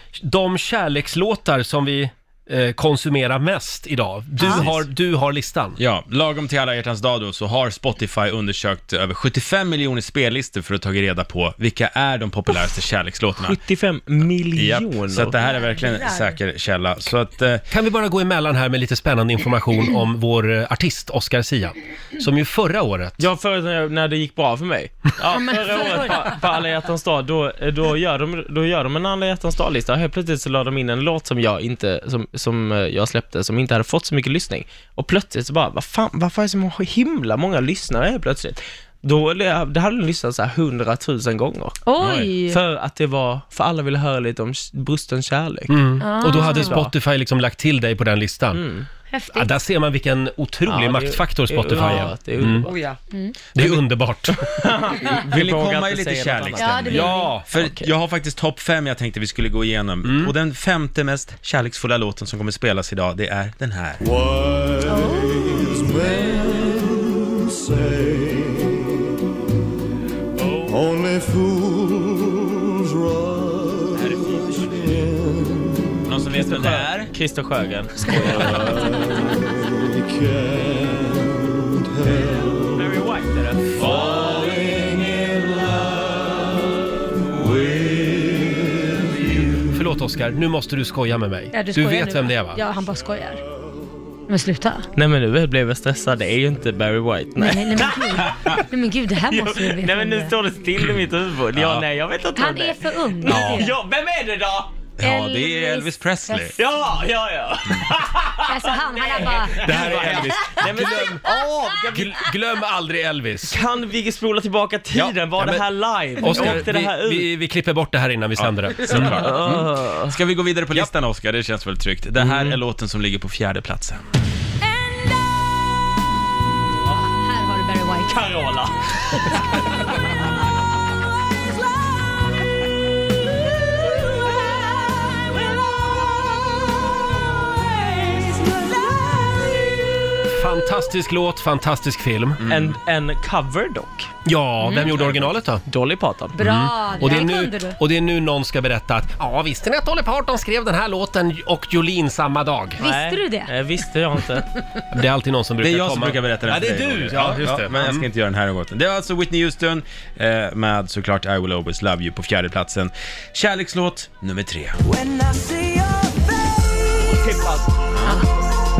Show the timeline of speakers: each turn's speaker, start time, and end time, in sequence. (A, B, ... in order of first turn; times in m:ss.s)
0:00.2-0:05.8 A
0:04.4-0:04.6 B
0:04.4-0:04.8 C
0:05.8-0:13.6 C
0:13.4-0:15.4 D
0:14.5-0:17.6 C
0:15.4-0:16.4 B
0:17.7-0:23.2 A
0:23.2-0:41.8 D
0:25.3-0:26.4 B
0:41.8-0:42.6 B
0:42.0-0:42.3 C
0:42.4-0:46.9 D
0:45.7-0:48.6 A
0:46.0-0:46.8 B
0:48.5-0:48.9 D
0:49.1-0:49.5 B
0:49.3-0:52.7 A
0:50.7-0:52.9 D
0:53.6-0:54.6 A
0:54.4-0:56.9 D
0:55.0-1:04.0 C
0:56.6-0:57.4 B
0:56.9-0:57.5 A
0:57.5-0:57.9 D
1:00.0-1:00.3 A
1:04.8-1:06.0 B
1:06.2-1:06.8 E
1:13.9-1:14.5 C
1:16.0-1:17.1 C
1:16.3-1:19.2 D
1:22.7-1:23.7 D
1:23.7-1:24.4 C
1:24.2-1:26.3 E
1:27.4-1:28.6 E
1:29.7-1:32.6 A
1:31.5-1:33.4 B
1:34.3-1:34.9 B
1:35.0-1:38.2 D
1:37.4-1:40.3 B
1:39.3-1:44.7 D
1:41.5-1:41.8 C
1:42.4-1:43.7 B
1:43.2-1:43.7 A
1:45.0-1:46.5 C
1:45.0-1:46.5 B
1:46.6-1:52.2 D
1:48.5-1:49.8 B
1:49.6-1:51.4 A
1:49.8-1:50.2 C
1:51.9-1:53.6 A
1:53.4-1:57.3 D
1:55.0-1:55.6 A
1:56.2-1:59.2 A
1:58.4-2:04.0 C
1:59.0-2:00.1 D
2:02.2-2:02.6 D
2:07.0-2:08.3 B
2:08.1-2:08.7 D
2:17.7-2:19.7 E
2:20.3-2:22.4 A
2:22.4-2:22.8 C
2:22.5-2:24.1 D
2:24.2-2:25.6 A
2:24.6-2:25.0 B
2:25.1-2:26.4 D
2:26.4-2:27.8 B
2:26.4-2:32.8 A
2:32.8-2:33.5 B
2:32.8-2:34.5 D
2:34.9-2:38.0 A
2:35.6-2:44.8 C
2:44.8-2:48.6 E
2:47.9-2:48.2 C